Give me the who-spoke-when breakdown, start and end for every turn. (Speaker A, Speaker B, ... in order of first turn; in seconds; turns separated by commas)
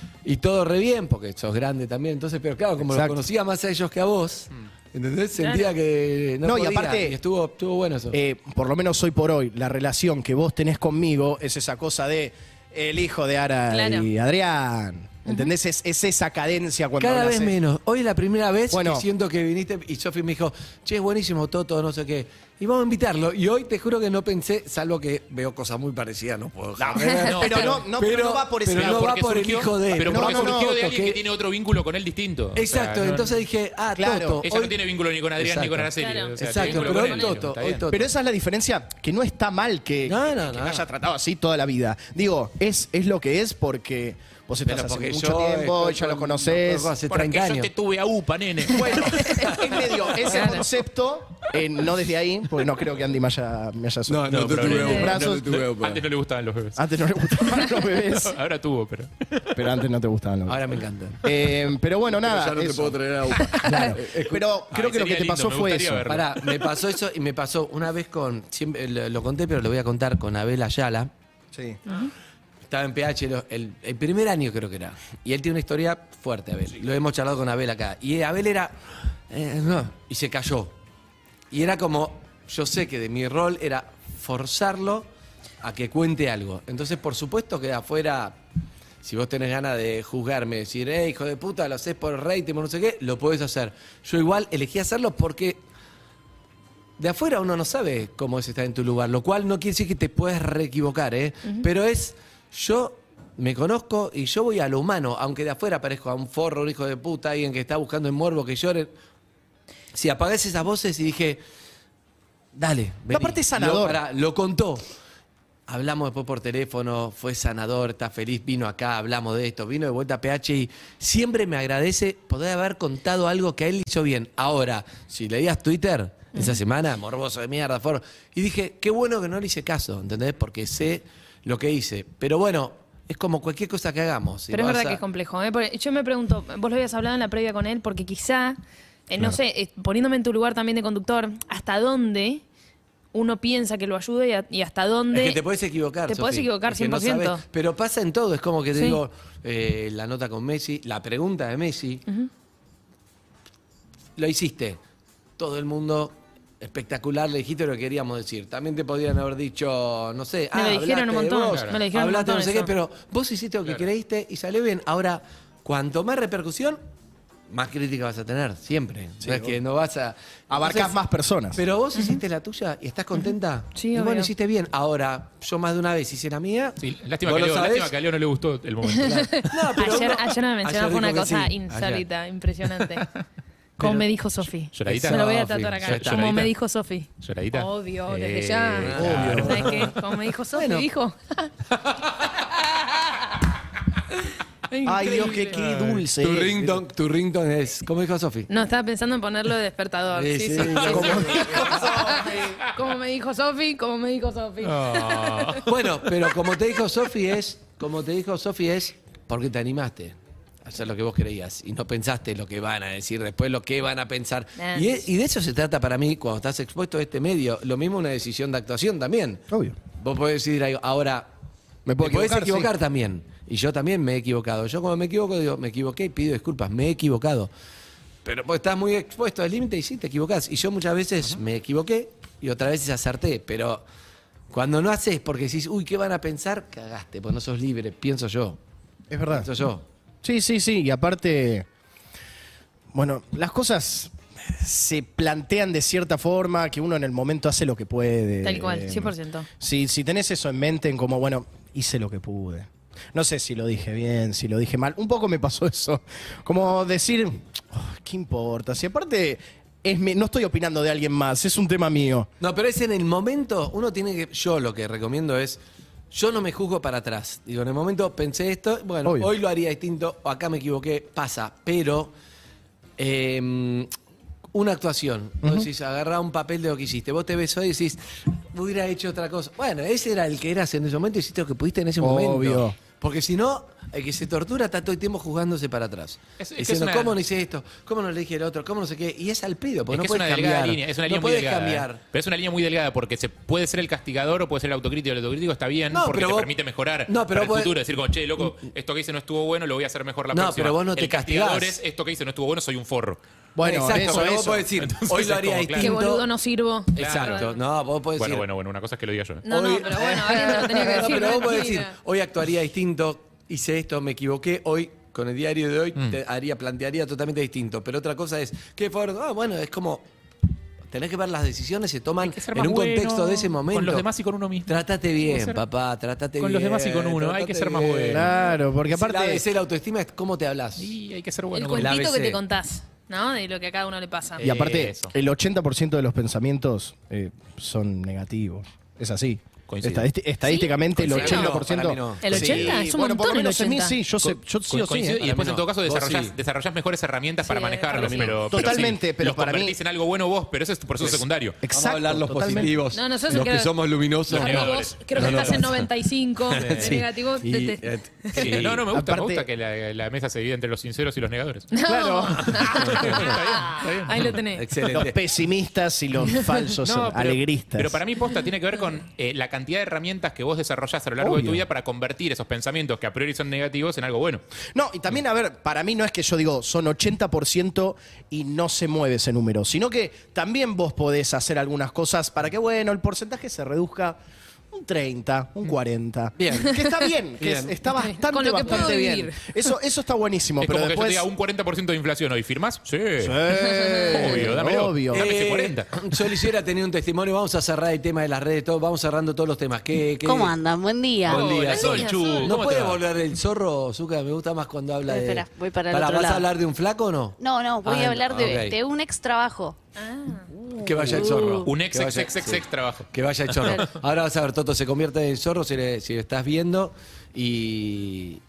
Speaker A: 0.2-8.2, Speaker B: 2.8-3.2, Speaker C: 5.4-5.7, Speaker B: 6.4-7.2, Speaker B: 8.1-17.6, Speaker C: 13.7-14.1, Speaker C: 15.3-15.5, Speaker A: 17.0-31.2, Speaker B: 18.7-19.1, Speaker B: 26.8-29.1, Speaker D: 27.2-27.9, Speaker D: 28.7-33.4, Speaker B: 30.0-30.7, Speaker A: 32.6-34.8, Speaker B: 34.0-34.4, Speaker D: 34.5-37.9, Speaker A: 35.4-38.1, Speaker C: 36.0-37.4, Speaker B: 37.9-46.9, Speaker A: 40.1-40.9, Speaker A: 44.6-47.7, Speaker D: 47.1-49.5, Speaker B: 48.7-55.6, Speaker C: 50.3-50.6, Speaker A: 54.1-56.0, Speaker D: 54.4-59.6, Speaker C: 54.8-55.1, Speaker B: 56.8-58.4, Speaker B: 59.5-66.1, Speaker A: 60.5-61.3, Speaker A: 62.1-64.4, Speaker D: 64.7-66.6, Speaker A: 66.1-71.1, Speaker B: 71.5-71.8, Speaker A: 72.7-78.8, Speaker A: 79.3-80.7, Speaker A: 81.5-85.1, Speaker A: 85.6-88.4, Speaker A: 89.0-95.6, Speaker A: 97.0-108.9, Speaker A: 109.9-111.4, Speaker A: 112.5-114.8, Speaker B: 113.1-114.0, Speaker A: 115.7-135.0, Speaker C: 126.3-126.6, Speaker C: 134.5-142.4, Speaker C: 143.1-145.4, Speaker A: 145.1-152.1, Speaker C: 146.1-147.4, Speaker C: 148.8-149.0, Speaker A: 154.2-154.8, Speaker A: 155.4-166.8, Speaker C: 160.5-162.7, Speaker D: 161.5-161.8, Speaker A: 167.5-171.0, Speaker B: 169.2-169.6, Speaker B: 170.5-171.6, Speaker A: 171.6-177.9, Speaker C: 171.9-172.2, Speaker C: 173.2-174.3, Speaker D: 176.8-179.9, Speaker C: 178.9-183.1, Speaker A: 179.1-182.1, Speaker A: 183.8-184.1, Speaker C: 183.8-191.5, Speaker D: 184.7-186.5, Speaker A: 184.9-186.2, Speaker D: 187.2-189.6, Speaker A: 188.8-190.0, Speaker B: 188.9-189.8, Speaker A: 190.5-190.9, Speaker C: 194.7-195.6, Speaker B: 194.8-196.8, Speaker A: 195.6-198.5, Speaker C: 198.5-205.6, Speaker A: 200.1-202.3, Speaker B: 200.8-202.4, Speaker D: 204.6-205.7, Speaker A: 205.7-219.4, Speaker C: 214.6-215.0, Speaker B: 219.5-219.8, Speaker A: 220.0-221.3, Speaker B: 221.9-222.7, Speaker A: 222.0-227.5, Speaker A: 228.2-233.8, Speaker A: 234.5-238.6, Speaker B: 239.1-239.5, Speaker A: 239.3-239.9, Speaker B: 240.2-241.7, Speaker B: 242.9-262.3, Speaker C: 248.4-249.5, Speaker A: 262.4-272.1, Speaker B: 269.1-269.3, Speaker A: 273.0-273.9, Speaker A: 274.5-278.0, Speaker B: 275.4-275.7, Speaker A: 278.5-292.0, Speaker B: 282.0-282.8, Speaker D: 286.4-287.2, Speaker D: 289.9-303.2, Speaker A: 295.9-296.5, Speaker A: 297.1-297.8, Speaker A: 300.3-301.8, Speaker B: 303.6-304.7, Speaker A: 303.6-306.3, Speaker D: 304.8-306.0, Speaker C: 305.8-307.5, Speaker A: 306.9-308.4, Speaker D: 307.0-307.6, Speaker D: 308.2-309.4, Speaker C: 309.4-311.9, Speaker A: 309.5-320.1, Speaker A: 320.9-324.1, Speaker D: 322.2-325.6, Speaker A: 324.7-330.9, Speaker D: 326.4-328.3, Speaker B: 328.1-329.4, Speaker D: 330.8-332.0, Speaker C: 331.5-334.4, Speaker A: 331.8-332.4, Speaker A: 334.4-334.9, Speaker B: 334.4-345.2, Speaker D: 334.5-335.1, Speaker D: 339.7-340.1, Speaker D: 341.0-341.5, Speaker A: 341.0-342.8, Speaker C: 342.2-344.0, Speaker D: 344.7-351.6, Speaker A: 345.2-346.3, Speaker C: 347.4-348.4, Speaker A: 348.0-348.3, Speaker B: 348.5-349.8, Speaker A: 351.0-355.9, Speaker B: 351.6-352.8, Speaker C: 352.9-353.7, Speaker D: 354.3-355.8, Speaker C: 354.3-358.4, Speaker A: 356.5-358.9, Speaker D: 356.6-357.0, Speaker D: 358.4-361.7, Speaker B: 358.5-359.5, Speaker C: 361.7-364.6, Speaker B: 361.9-362.5, Speaker D: 362.6-364.4, Speaker A: 362.8-363.3, Speaker A: 364.5-365.2, Speaker B: 364.9-368.0, Speaker D: 366.8-374.4, Speaker B: 371.2-371.6, Speaker B: 374.8-384.2, Speaker B: 384.7-391.3, Speaker A: 386.4-386.8, Speaker A: 387.4-387.8, Speaker C: 387.9-389.5, Speaker D: 390.6-393.5, Speaker B: 393.2-395.3, Speaker C: 393.6-394.2, Speaker D: 394.1-395.9, Speaker A: 395.1-400.6, Speaker E: 400.2-401.5, Speaker A: 401.2-408.8, Speaker D: 401.3-403.0, Speaker C: 401.6-402.6, Speaker E: 405.1-406.5, Speaker E: 407.4-409.8, Speaker C: 410.0-410.5, Speaker A: 410.8-418.4, Speaker E: 411.1-411.7, Speaker D: 411.6-413.9